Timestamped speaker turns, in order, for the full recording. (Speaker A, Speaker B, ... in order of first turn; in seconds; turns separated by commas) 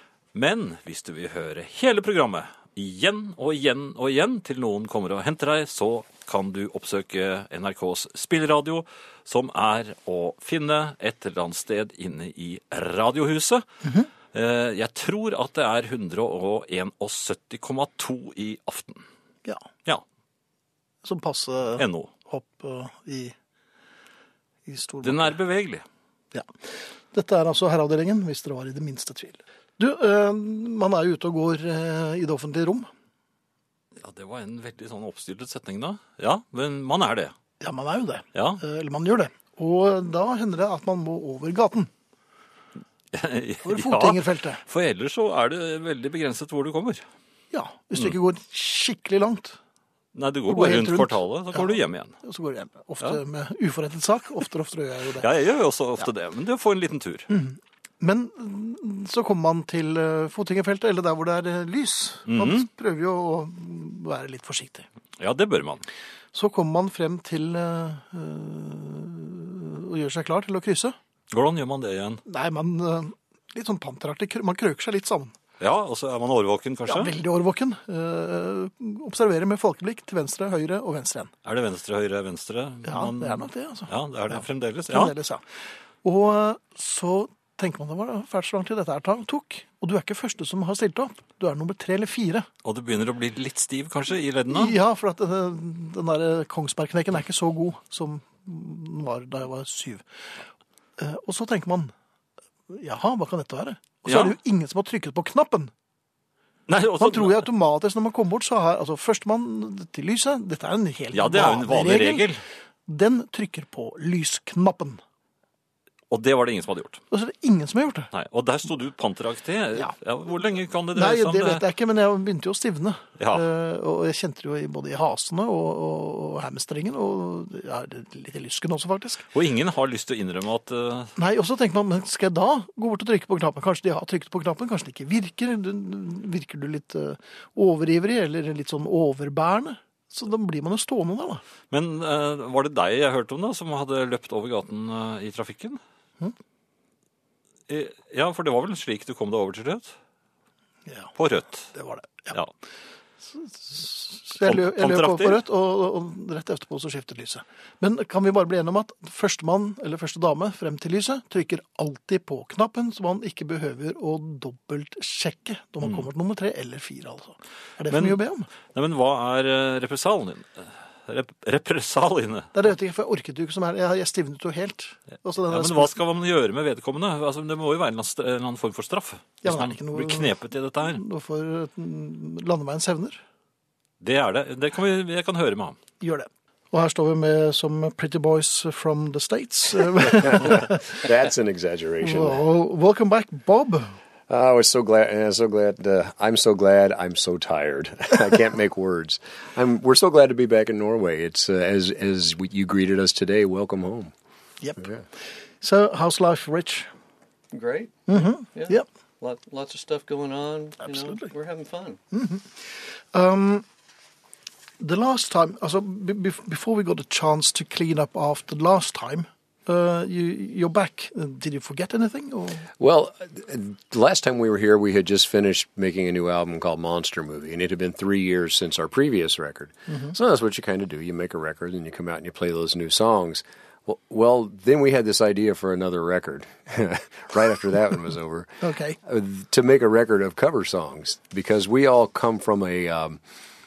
Speaker A: 0.3-13.6, Speaker A: 14.3-19.0, Speaker B: 21.0-23.3, Speaker A: 21.8-22.1, Speaker B: 24.7-25.4, Speaker A: 25.0-25.8, Speaker B: 27.1-32.9, Speaker A: 34.0-37.3, Speaker B: 37.6-41.9, Speaker A: 38.3-38.6, Speaker A: 43.1-47.0, Speaker B: 43.6-44.6, Speaker B: 47.5-49.6, Speaker A: 50.1-52.1, Speaker B: 50.5-55.3, Speaker A: 55.2-57.3, Speaker B: 57.3-64.8, Speaker A: 62.3-62.6, Speaker A: 65.2-65.8, Speaker B: 66.3-70.9, Speaker A: 71.3-72.2, Speaker B: 72.3-75.3, Speaker A: 75.6-77.2, Speaker B: 76.9-81.3, Speaker A: 81.4-85.1, Speaker B: 82.8-85.4, Speaker B: 86.0-92.5, Speaker A: 92.6-94.7, Speaker B: 94.5-100.0, Speaker B: 101.0-101.9, Speaker B: 102.7-105.7, Speaker A: 104.1-104.3, Speaker A: 106.7-107.5, Speaker B: 107.0-112.2, Speaker A: 111.1-112.4, Speaker B: 112.9-115.0, Speaker A: 116.1-117.0, Speaker B: 117.1-118.1, Speaker A: 118.1-121.6, Speaker B: 120.9-129.2, Speaker A: 123.2-123.4, Speaker A: 129.3-131.1, Speaker B: 131.2-141.4, Speaker A: 141.7-145.8, Speaker A: 147.7-149.9, Speaker A: 151.2-151.7, Speaker B: 151.7-152.4, Speaker B: 153.3-168.5, Speaker A: 154.4-155.4, Speaker A: 167.9-168.2, Speaker A: 168.7-172.5, Speaker B: 172.5-176.0, Speaker A: 175.5-181.0, Speaker B: 179.4-183.2, Speaker A: 184.0-185.8, Speaker B: 186.0-191.0, Speaker C: 190.0-192.4, Speaker B: 192.0-193.9, Speaker C: 194.3-204.1, Speaker B: 204.6-204.9, Speaker B: 205.6-206.9, Speaker D: 207.5-212.0, Speaker B: 208.1-208.9, Speaker B: 210.8-211.3, Speaker B: 212.1-213.7, Speaker B: 214.8-222.7, Speaker C: 222.8-243.2, Speaker B: 229.9-230.1, Speaker B: 238.6-239.0